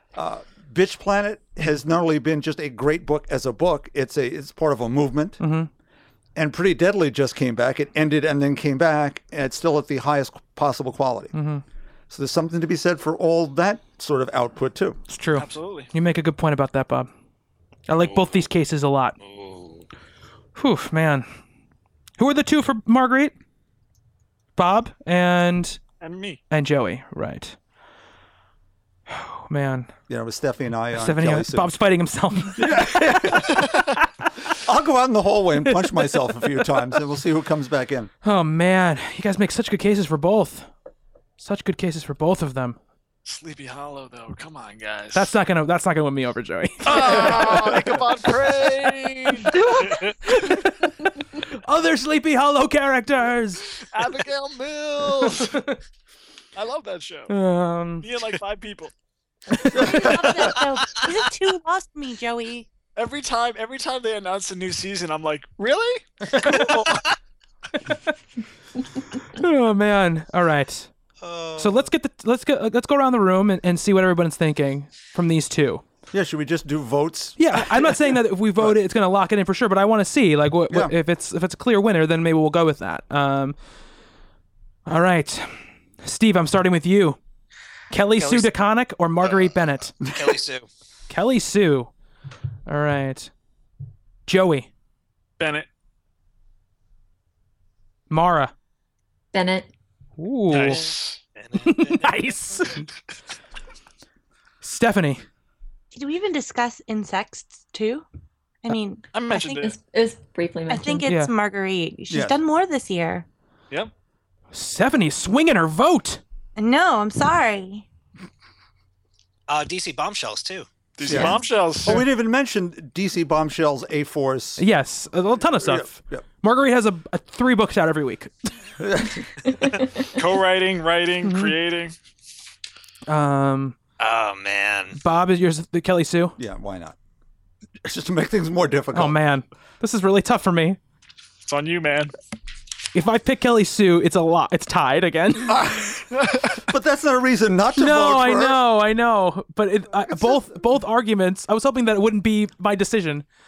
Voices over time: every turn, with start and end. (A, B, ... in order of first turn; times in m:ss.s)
0:00.2-0:05.4 A
0:05.4-0:05.7 B
0:06.4-0:11.3 A
0:11.3-0:11.6 B
0:12.1-0:15.0 A
0:15.1-0:17.1 B
0:15.3-0:15.9 C
0:17.9-0:19.2 B
0:19.2-0:19.8 D
0:20.6-0:21.3 B
0:22.2-0:23.4 B
0:24.6-0:25.8 B
0:26.0-0:26.4 C
0:26.5-0:27.6 B
0:29.1-0:29.9 B
0:30.1-0:31.7 A
0:30.9-0:33.7 B
0:32.6-0:33.8 A
0:34.6-0:38.1 A
0:35.7-0:36.2 B
0:38.2-0:40.7 B
0:41.4-0:42.8 B
0:43.2-0:45.3 C
0:45.1-0:47.7 B
0:46.9-0:50.2 C
0:46.9-0:48.0 A
0:49.4-0:53.8 B
0:53.9-0:55.6 C
0:55.2-0:55.8 B
0:56.6-0:57.3 C
0:57.3-0:58.1 B
0:58.0-0:58.9 C
0:59.7-1:00.4 A
0:59.7-1:02.7 E
0:59.8-1:00.2 C
1:03.0-1:07.0 C
1:09.1-1:10.9 B
1:11.2-1:11.8 D
1:11.6-1:15.8 B
1:16.1-1:18.8 A
1:17.4-1:23.6 B
1:24.9-1:27.2 B
1:27.9-1:29.9 B
1:28.2-1:28.5 D
1:30.0-1:30.7 D
1:31.1-1:31.9 B
1:32.7-1:33.3 B
1:34.3-1:34.7 B
1:35.4-1:35.7 C
1:38.1-1:38.5 B
1:39.3-1:39.7 F
1:40.2-1:40.8 B
1:40.5-1:41.2 C
1:41.4-1:42.2 D
1:41.6-1:42.9 B
1:44.6-1:45.2 B
1:45.9-1:48.1 E
1:48.6-1:49.4 E
1:49.1-1:49.8 C
1:49.4-1:51.1 F
1:50.7-1:53.2 E
1:51.1-1:51.3 B
1:52.1-1:52.4 A
1:54.5-1:56.2 B
1:56.6-1:57.8 E
1:59.5-2:00.7 D
2:01.0-2:02.1 C
2:01.0-2:04.6 A
2:04.6-2:08.5 B
2:05.6-2:06.2 A
2:08.8-2:09.3 A
2:10.1-2:11.9 C
2:11.2-2:11.6 B
2:13.1-2:13.8 B
2:14.0-2:15.0 D
2:15.0-2:16.4 B
2:16.4-2:17.0 A
2:17.8-2:19.2 A
2:18.9-2:20.8 B
2:21.4-2:22.1 C
2:22.9-2:25.7 B
2:25.5-2:26.0 A
2:26.1-2:26.6 C
2:26.6-2:28.6 A
2:27.8-2:33.2 B
2:30.0-2:30.6 A